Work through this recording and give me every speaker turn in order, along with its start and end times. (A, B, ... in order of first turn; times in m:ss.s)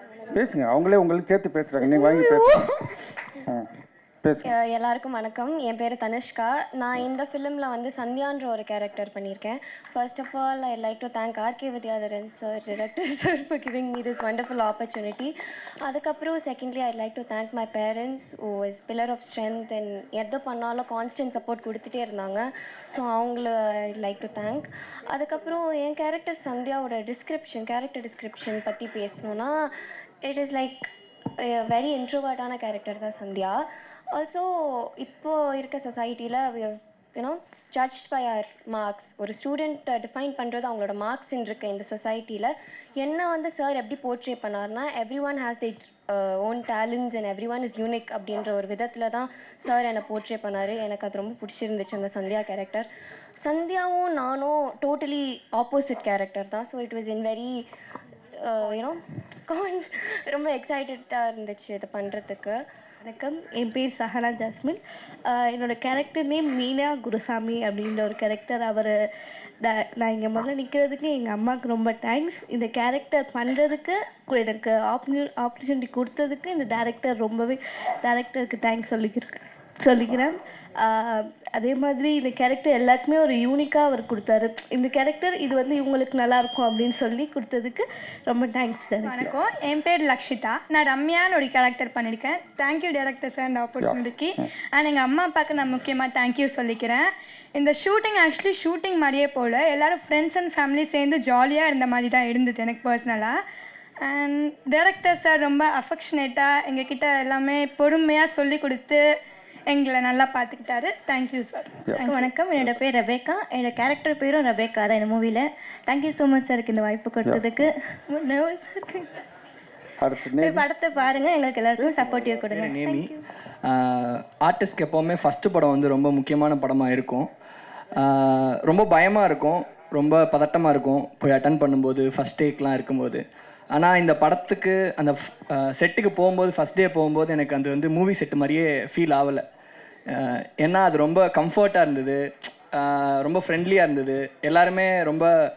0:00.3-0:02.6 A
0:04.4-0:15.3 B
0:15.8-0:29.7 B
0:30.2-0:30.8 B
0:31.4-0:52.9 B
0:53.4-0:57.6 B
0:58.4-1:02.6 B
1:03.0-1:09.0 C
1:09.6-1:29.3 C
1:29.1-1:43.4 D
1:33.8-1:34.0 A
1:44.0-1:49.0 D
1:49.7-1:52.2 D
1:51.9-1:52.8 A
1:52.0-1:59.1 E
1:57.2-1:57.7 A
2:00.0-2:00.7 A
2:00.4-2:03.1 E
2:02.0-2:02.4 A
2:02.4-2:07.3 F
2:08.0-2:19.4 F
2:20.1-2:25.3 F